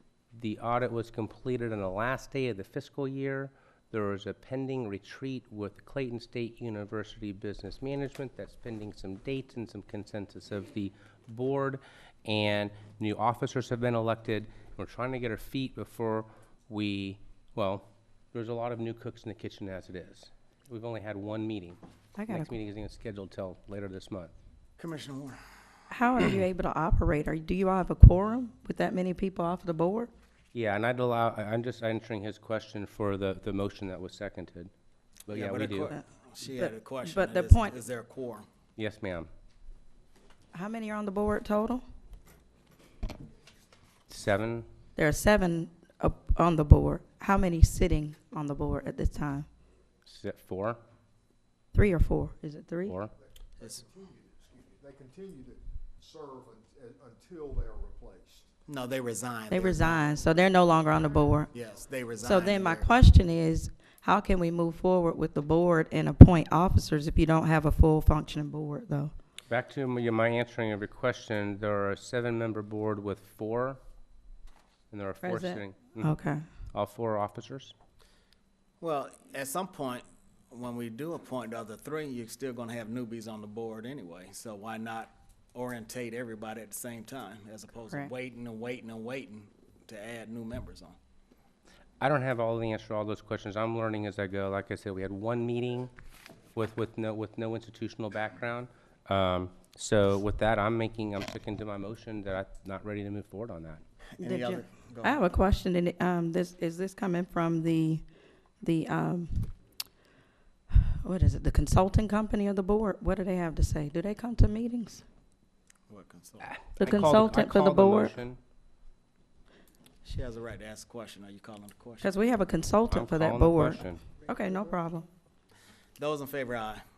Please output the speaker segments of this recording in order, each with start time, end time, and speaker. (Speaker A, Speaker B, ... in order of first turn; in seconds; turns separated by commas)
Speaker A: 0.3-21.8, Speaker B: 22.2-22.5, Speaker A: 22.3-24.3, Speaker C: 24.8-25.4, Speaker B: 25.9-30.1, Speaker A: 30.5-34.7, Speaker A: 35.3-36.0, Speaker C: 35.3-38.5, Speaker B: 36.6-37.8, Speaker A: 38.8-39.3, Speaker B: 40.5-41.8, Speaker A: 44.1-44.7, Speaker B: 45.0-49.5, Speaker A: 50.1-50.8, Speaker B: 51.7-53.0, Speaker D: 53.2-58.5, Speaker C: 58.7-60.2, Speaker B: 59.5-61.5, Speaker C: 61.5-62.9, Speaker B: 62.2-69.1, Speaker A: 69.5-73.8, Speaker A: 74.9-76.2, Speaker B: 75.2-76.4, Speaker A: 76.7-77.7, Speaker C: 78.8-91.0, Speaker A: 92.0-95.9, Speaker A: 96.5-103.8, Speaker C: 104.2-105.2, Speaker B: 104.2-108.0, Speaker B: 108.6-109.5, Speaker B: 110.7-115.0, Speaker C: 115.9-116.5, Speaker A: 116.4-118.4, Speaker B: 116.8-118.1, Speaker C: 120.0-122.1, Speaker B: 122.0-125.1, Speaker A: 122.9-124.1, Speaker C: 126.0-126.8